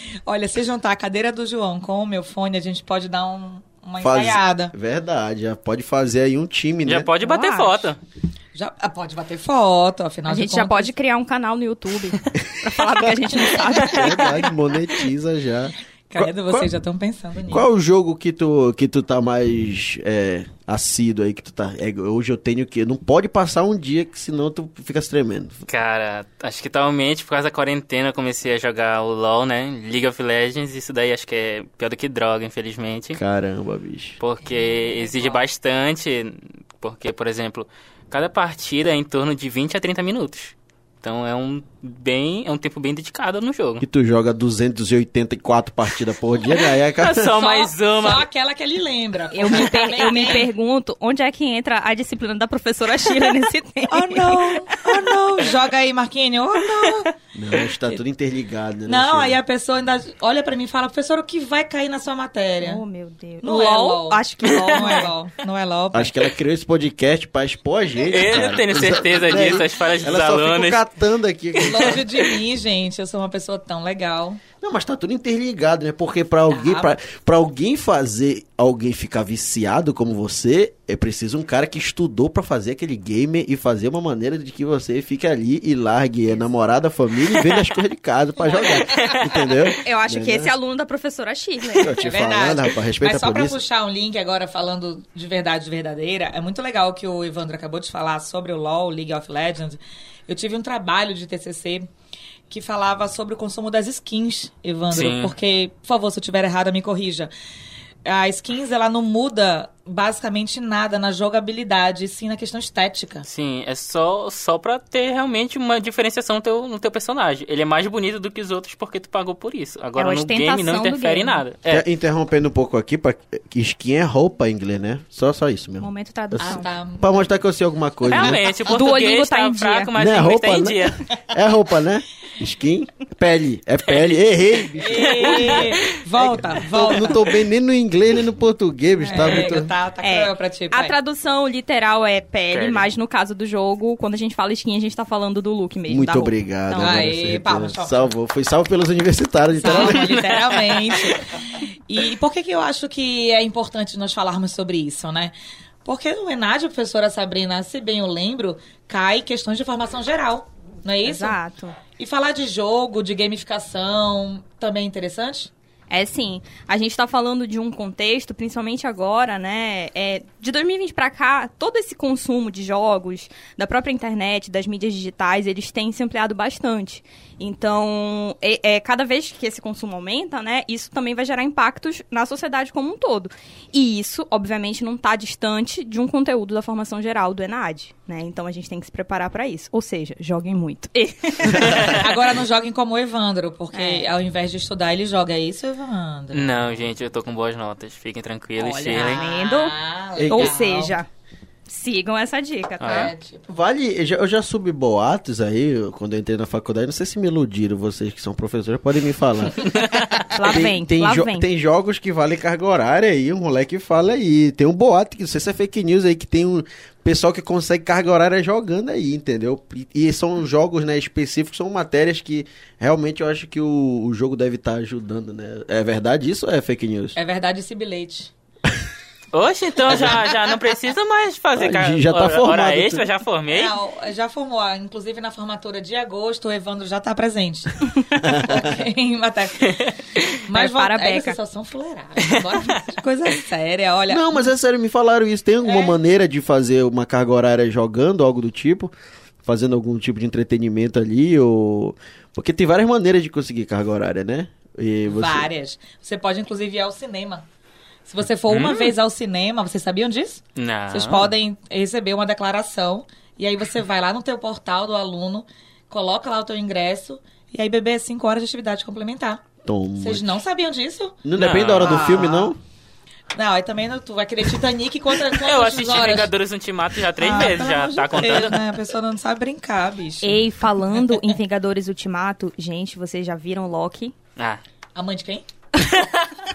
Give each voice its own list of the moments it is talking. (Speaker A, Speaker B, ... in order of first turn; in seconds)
Speaker A: 0.2-4.7, 8.5-10.9, 13.2-13.8, 16.1-17.7, 34.4-35.5, 47.4-50.5, 53.9-57.1, 58.9-62.8, 63.4-66.1, 71.6-74.4, 76.5-76.9, 92.0-101.9, 102.5-107.3, 108.0-113.2, 126.4-127.3, 128.5-128.8, 134.8-137.2, 139.1-141.0, 146.8-148.1, 149.6-155.3, 155.8-161.4, 162.0-165.5, 191.5-196.9, 198.9-201.0, 202.9-203.5, 227.2-228.3, 233.5-239.8, 240.5-244.5, 245.6-246.0, 255.1-257.5, 258.1-269.4, 270.0-271.2, 271.8-272.5, 273.3-276.3, 277.2-280.4, 285.0-285.4
Speaker B: 4.0-7.1, 13.8-16.7, 17.5-25.6, 33.1-34.2, 43.8-47.4, 57.3-59.4, 65.9-72.0, 74.6-90.5, 91.8-93.6, 121.7-128.5, 129.9-139.7, 145.9-150.1, 200.2-200.6, 203.5-209.8, 210.4-227.2, 231.6-233.0, 238.2-238.8, 244.1-248.9, 249.4-255.5, 269.6-270.4, 271.2-272.6
Speaker C: 6.8-8.0, 25.7-33.2, 34.2-43.8, 46.5-48.2, 64.4-65.1, 68.0-70.8, 71.5-72.3, 87.3-87.7, 88.7-89.8, 104.9-105.3, 113.2-121.8, 128.0-131.0, 133.9-134.1, 135.1-135.8, 142.5-142.9, 149.7-151.3, 191.6-192.0, 196.3-199.2, 202.8-203.1, 209.6-210.2, 229.3-233.8, 239.7-240.2, 258.5-258.9, 260.6-261.3, 271.4-272.3, 275.3-278.6, 284.4-284.6, 285.8-286.2
Speaker D: 7.2-7.9, 10.3-14.5, 49.3-54.8, 62.6-65.1, 88.5-88.8, 89.8-92.2, 120.0-121.4, 125.8-126.7, 128.7-129.9, 139.0-147.1, 161.0-161.8, 165.9-192.0, 193.7-194.1, 198.6-201.1, 201.7-203.1, 210.3-211.4, 240.5-241.4, 280.2-284.1